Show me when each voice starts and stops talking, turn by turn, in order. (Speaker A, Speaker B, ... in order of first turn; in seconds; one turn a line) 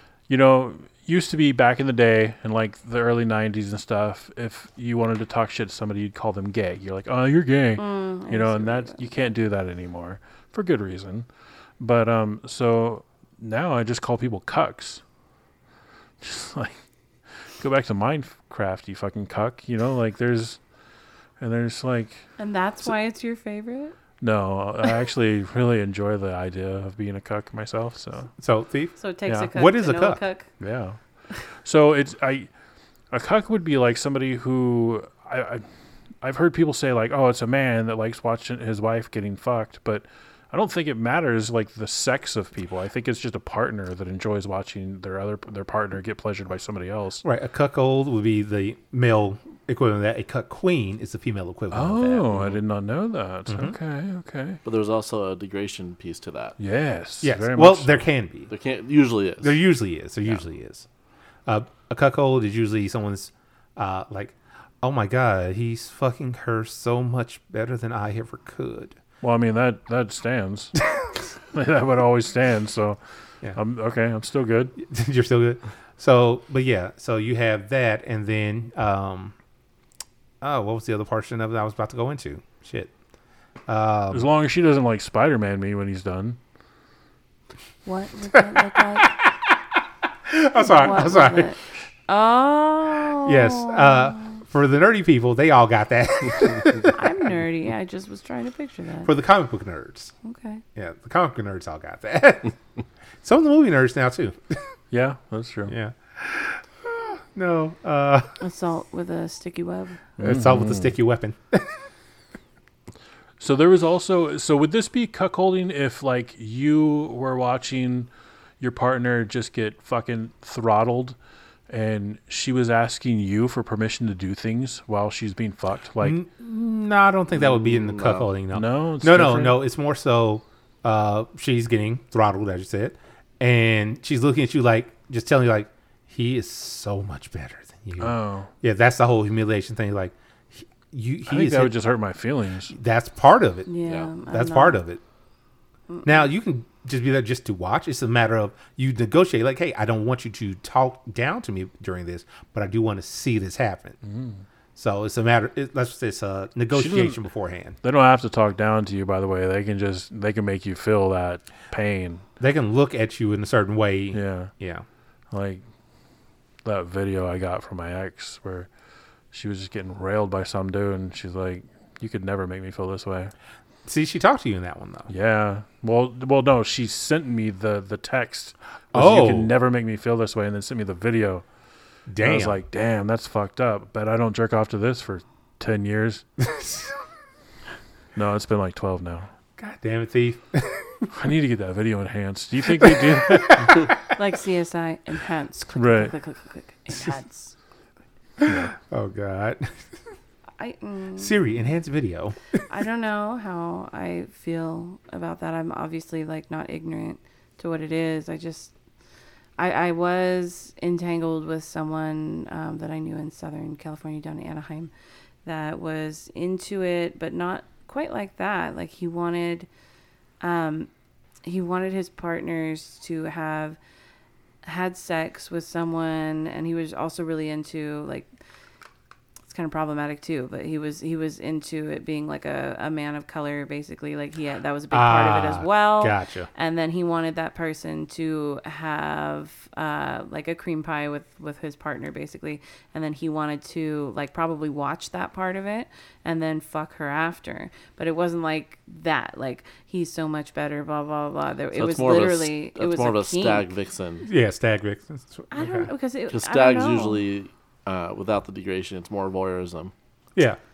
Speaker A: 0.3-11.3
Speaker B: 7.8-9.0
Speaker A: 11.8-15.0
Speaker A: 16.2-16.8
Speaker A: 17.6-20.6
Speaker A: 21.4-22.3
Speaker B: 22.4-23.9
Speaker A: 24.2-28.3
Speaker C: 28.4-28.9
Speaker B: 29.0-30.5
Speaker C: 29.5-30.2
Speaker A: 30.6-31.0
Speaker A: 31.6-32.5
Speaker A: 33.1-35.6
Speaker A: 36.2-47.2
Speaker C: 47.2-52.6
Speaker A: 51.7-54.6
Speaker C: 53.5-53.8
Speaker D: 54.6-56.5
Speaker A: 56.6-58.0
Speaker C: 57.2-58.5
Speaker D: 58.5-59.6
Speaker C: 59.4-60.8
Speaker C: 61.5-69.0
Speaker A: 69.2-70.8
Speaker A: 71.5-73.0
Speaker A: 73.5-74.7
Speaker C: 74.8-79.3
Speaker C: 80.4-82.9
Speaker C: 83.7-84.3
Speaker A: 84.1-86.4
Speaker B: 87.8-89.2
Speaker C: 89.0-89.5
Speaker C: 90.2-91.5
Speaker B: 90.6-94.4
Speaker C: 93.2-97.1
Speaker B: 96.9-99.1
Speaker C: 99.0-100.1
Speaker B: 100.2-100.6
Speaker C: 100.7-102.5
Speaker C: 103.2-104.6
Speaker A: 104.9-105.7
Speaker C: 105.7-108.4
Speaker B: 108.4-110.0
Speaker A: 110.2-110.9
Speaker C: 110.2-111.8
Speaker A: 113.4-118.1
Speaker A: 118.6-121.2
Speaker A: 121.7-126.2
Speaker C: 126.0-141.7
Speaker D: 127.3-128.3
Speaker A: 128.5-129.6
Speaker A: 138.0-138.5
Speaker A: 141.3-142.7
Speaker C: 142.7-143.7
Speaker B: 143.7-144.8
Speaker C: 144.2-145.0
Speaker C: 146.0-154.0
Speaker A: 154.0-154.4
Speaker C: 154.8-157.8
Speaker A: 156.7-157.2
Speaker A: 157.8-162.2
Speaker C: 162.4-164.8
Speaker A: 164.1-164.5
Speaker A: 165.3-165.6
Speaker A: 166.6-168.7
Speaker A: 169.3-173.3
Speaker C: 173.8-175.1
Speaker A: 175.1-181.4
Speaker C: 178.9-179.5
Speaker C: 182.1-182.6
Speaker A: 182.2-186.2
Speaker C: 186.4-186.9
Speaker A: 188.1-189.3
Speaker C: 189.6-191.1
Speaker A: 191.1-193.8
Speaker C: 192.8-194.0
Speaker B: 194.1-197.5
Speaker A: 195.7-196.1
Speaker C: 198.4-199.8
Speaker A: 198.4-198.7
Speaker B: 200.6-201.4
Speaker C: 201.2-202.4
Speaker B: 202.7-208.7
Speaker B: 209.6-214.9
Speaker B: 215.4-219.7
Speaker B: 220.4-220.9
Speaker B: 221.4-223.8
Speaker B: 224.6-228.3
Speaker B: 229.5-253.7
Speaker C: 234.9-236.5
Speaker D: 251.7-254.3
Speaker C: 254.2-255.9
Speaker B: 255.5-257.2
Speaker D: 256.3-259.9